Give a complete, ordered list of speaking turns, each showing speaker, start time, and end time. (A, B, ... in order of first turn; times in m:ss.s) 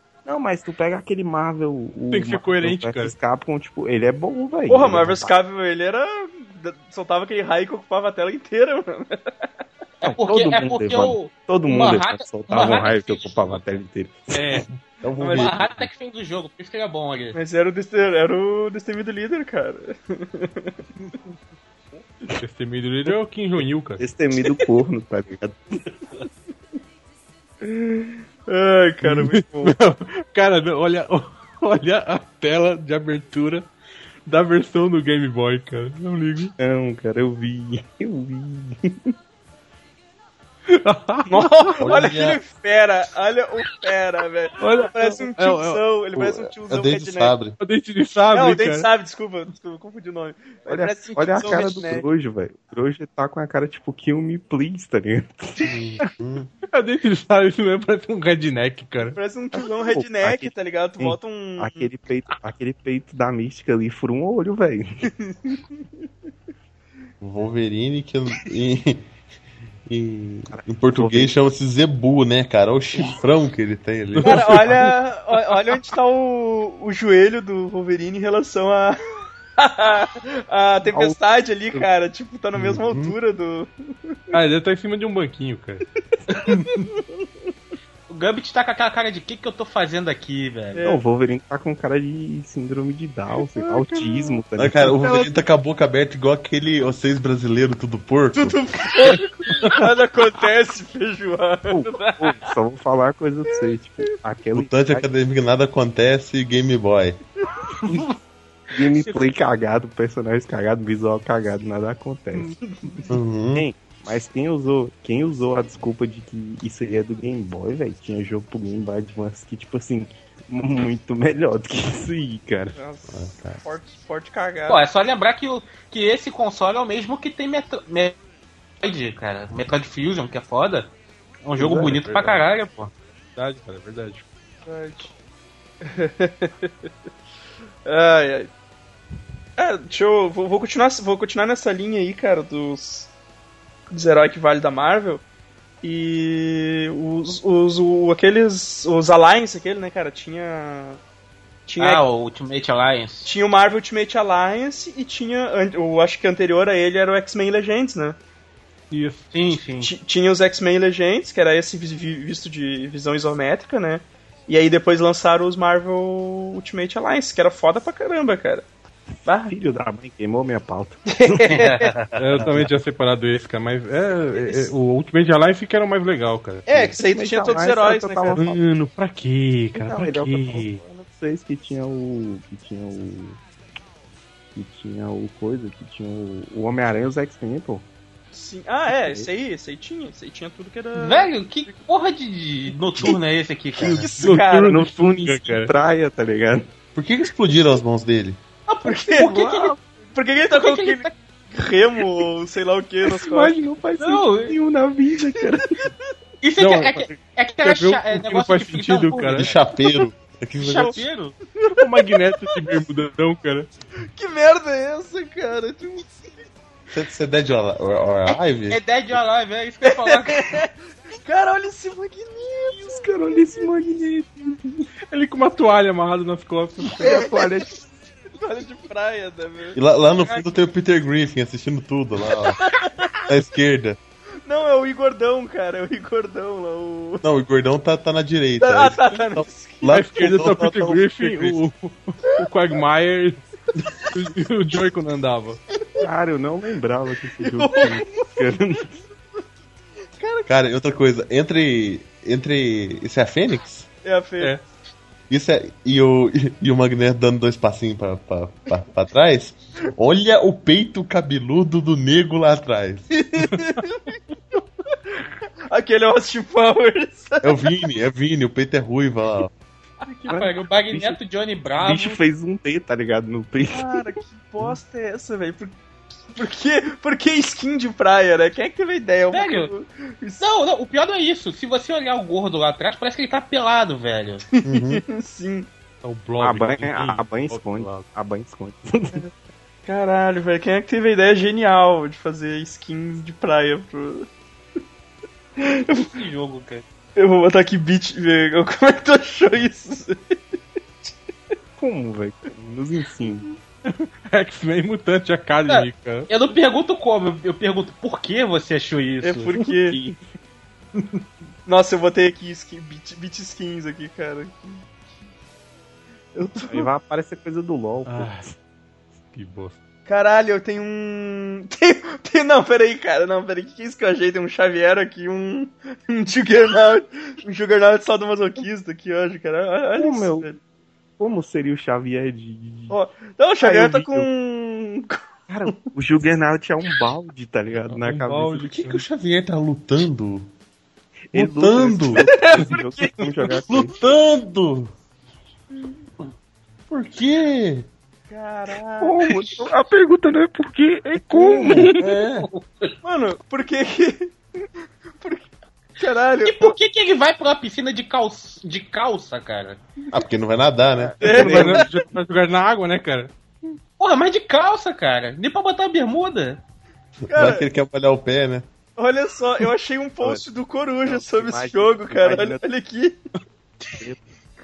0:00.2-0:05.3 A
0:02.1-0:03.1 B
0:04.7-0:09.2 C
0:10.0-0:13.8 D
0:10.0-0:14.6 A
0:15.0-0:15.9 E
0:15.2-0:17.4 D
0:15.2-0:15.5 C
0:17.3-0:20.8 C
0:22.4-0:24.0 B
0:24.0-0:25.8 A
0:27.6-0:29.7 C
0:29.0-0:33.7 B
0:34.3-0:36.5 B
0:36.6-0:39.1 A
0:40.7-0:41.8 B
0:41.3-0:47.4 C
0:41.8-0:42.4 E
0:44.6-0:45.8 B
0:46.1-0:47.6 E
0:47.6-0:48.9 B
0:48.3-0:52.1 C
0:50.7-0:55.7 A
0:55.6-0:56.5 E
0:56.7-0:59.2 B
0:59.1-1:01.9 C
0:59.5-1:05.1 A
1:05.1-1:05.6 C
1:07.2-1:09.1 E
1:09.9-1:14.8 E
1:10.5-1:11.4 A
1:14.2-1:14.9 B
1:14.2-1:19.0 C
1:19.6-1:24.4 C
1:20.9-1:21.2 A
1:22.5-1:23.1 E
1:24.3-1:25.8 B
1:26.3-1:27.0 C
1:28.1-1:30.8 D
1:30.7-1:31.0 C
1:30.8-1:35.3 A
1:33.5-1:34.4 C
1:34.6-1:39.2 E
1:38.3-1:42.4 C
1:41.7-1:45.1 A
1:44.5-1:47.2 E
1:48.7-1:52.6 A
1:52.7-1:53.1 C
1:53.1-1:53.6 E
1:53.5-2:02.8 A
2:02.7-2:04.8 C
2:03.1-2:03.6 E
2:04.7-2:08.2 D
2:08.8-2:10.9 D
2:11.4-2:12.9 D
2:11.6-2:12.0 A
2:11.9-2:12.4 B
2:13.4-2:14.2 B
2:14.6-2:15.1 C
2:15.8-2:16.7 C
2:17.8-2:18.5 C
2:19.6-2:23.1 C
2:23.9-2:25.2 C
2:25.8-2:31.0 C
2:31.7-2:32.0 C
2:31.8-2:33.3 D
2:33.2-2:38.2 C
2:38.9-2:39.3 B
2:39.3-2:39.9 D
2:39.8-2:48.6 C
2:49.2-2:49.5 C
2:49.5-2:51.5 A
2:51.1-2:51.9 C
2:51.5-2:52.1 D
2:52.2-2:56.9 B
2:56.7-2:58.4 C
2:57.0-2:58.6 A
2:58.3-3:00.8 B
2:59.7-3:03.4 A
3:04.5-3:07.9 A
3:08.3-3:11.3 C
3:08.9-3:09.3 A
3:10.9-3:14.1 D
3:13.8-3:14.7 C
3:13.8-3:16.7 A
3:14.2-3:15.7 B
3:16.9-3:18.4 E
3:18.7-3:19.8 D
3:18.8-3:23.6 C
3:20.5-3:21.1 D
3:23.0-3:25.9 A
3:24.0-3:24.6 D
3:26.4-3:29.6 D
3:26.6-3:29.5 B
3:29.3-3:31.0 E
3:30.6-3:31.4 D
3:31.6-3:32.8 C
3:31.7-3:33.7 B
3:34.0-3:36.3 C
3:36.9-3:39.2 E
3:38.3-3:40.6 D
3:39.8-3:43.0 C
3:42.7-3:44.9 A
3:45.1-3:47.3 B
3:47.0-3:47.8 A
3:47.0-3:47.6 C
3:48.4-3:49.8 C
3:49.7-3:54.0 E
3:52.4-3:53.3 C
3:54.4-3:57.2 C
3:57.2-4:01.6 E
3:58.6-3:59.8 C
3:59.9-4:03.4 B
4:04.0-4:05.6 B
4:06.0-4:09.0 A
4:07.4-4:08.5 C
4:10.2-4:10.5 C
4:10.5-4:13.9 E
4:14.0-4:14.5 C
4:15.3-4:23.1 E
4:23.1-4:24.1 C
4:25.7-4:27.8 C
4:27.4-4:29.5 E
4:30.0-4:30.4 C
4:30.3-4:31.2 A
4:30.3-4:32.2 D
4:31.8-4:34.0 A
4:33.7-4:35.8 C
4:36.3-4:40.4 C
4:39.3-4:39.7 D
4:40.4-4:44.4 D
4:44.5-4:45.7 C
4:44.6-4:45.0 E
4:46.0-4:48.1 B
4:46.4-4:49.3 A
4:49.9-4:54.3 C
4:55.6-4:56.1 C
4:56.1-4:56.8 D
4:57.2-5:00.4 C
5:01.8-5:03.5 A
5:03.9-5:06.3 B
5:05.7-5:09.6 D
5:09.2-5:10.0 C
5:09.6-5:10.2 A
5:11.6-5:14.7 C
5:16.4-5:16.9 C
5:16.7-5:18.5 A
5:18.1-5:18.4 B
5:19.3-5:19.8 B
5:20.1-5:30.6 C
5:30.0-5:30.5 A
5:31.2-5:33.0 A
5:32.9-5:35.2 C
5:33.6-5:34.3 A
5:35.5-5:38.9 A
5:37.9-5:39.0 B
5:38.7-5:40.5 E
5:41.3-5:43.9 A
5:41.3-5:42.2 E
5:42.2-5:43.5 C
5:43.6-5:44.9 E
5:46.9-5:47.9 E
5:48.3-5:49.2 C
5:49.0-5:52.2 A
5:51.3-5:52.0 C
5:51.9-5:53.0 D
5:53.0-5:54.3 C
5:55.2-5:56.8 C
5:56.4-5:59.8 D
6:00.1-6:01.6 E
6:01.0-6:01.9 A
6:01.2-6:01.9 C
6:01.2-6:03.3 B
6:04.0-6:06.6 D
6:07.3-6:08.7 E
6:07.3-6:07.7 C
6:09.0-6:13.2 C
6:11.0-6:12.6 A